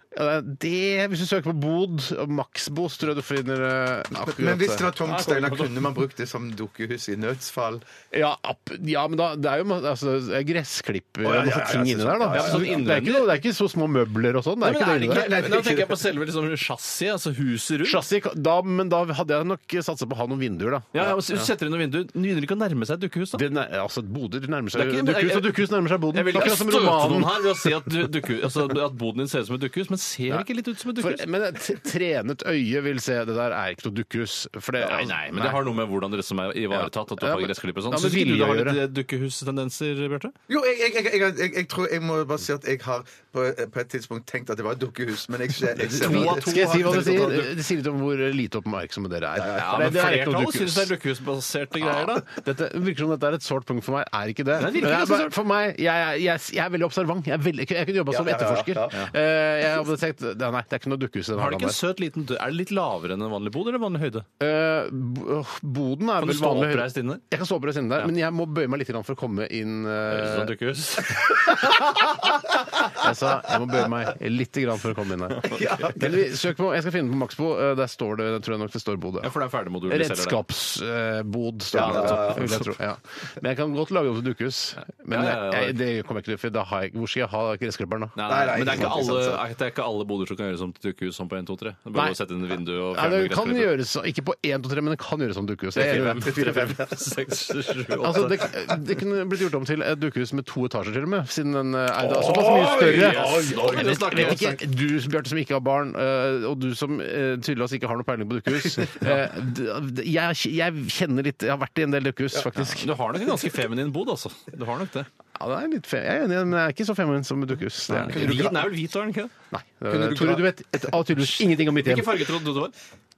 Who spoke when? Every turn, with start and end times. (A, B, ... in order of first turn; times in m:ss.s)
0:00.1-0:05.0 A
0:04.1-0:07.8 B
0:05.0-0:05.8 C
0:08.1-0:15.4 A
0:11.2-0:12.8 B
0:12.3-0:13.3 C
0:14.6-0:18.0 C
0:15.0-0:16.0 B
0:17.8-0:21.5 A
0:20.9-0:23.4 C
0:23.4-0:27.7 A
0:24.7-0:31.2 C
0:31.0-0:35.7 A
0:34.8-0:40.4 C
0:36.7-0:38.8 A
0:40.5-0:47.1 B
0:45.8-0:47.5 C
0:46.0-0:50.9 A
0:49.4-0:52.3 C
0:52.2-1:01.8 A
0:54.5-0:55.4 C
0:58.1-0:58.9 B
1:01.4-1:04.3 C
1:04.4-1:10.5 A
1:06.2-1:07.2 C
1:10.1-1:12.1 C
1:11.3-1:12.1 A
1:12.8-1:19.3 A
1:15.4-1:16.2 B
1:19.2-1:20.4 C
1:19.9-1:28.2 A
1:21.7-1:22.6 B
1:21.8-1:22.6 C
1:25.1-1:25.8 C
1:28.2-1:33.7 C
1:28.2-1:29.4 B
1:32.9-1:36.7 A
1:35.7-1:38.5 C
1:35.8-1:37.0 B
1:38.0-1:52.9 A
1:42.2-1:44.6 C
1:42.2-1:44.4 B
1:52.6-1:55.1 C
1:55.4-1:58.5 A
1:57.9-1:59.3 C
1:58.0-1:58.7 B
1:59.5-2:02.2 A
1:59.9-2:00.5 B
2:01.2-2:02.7 C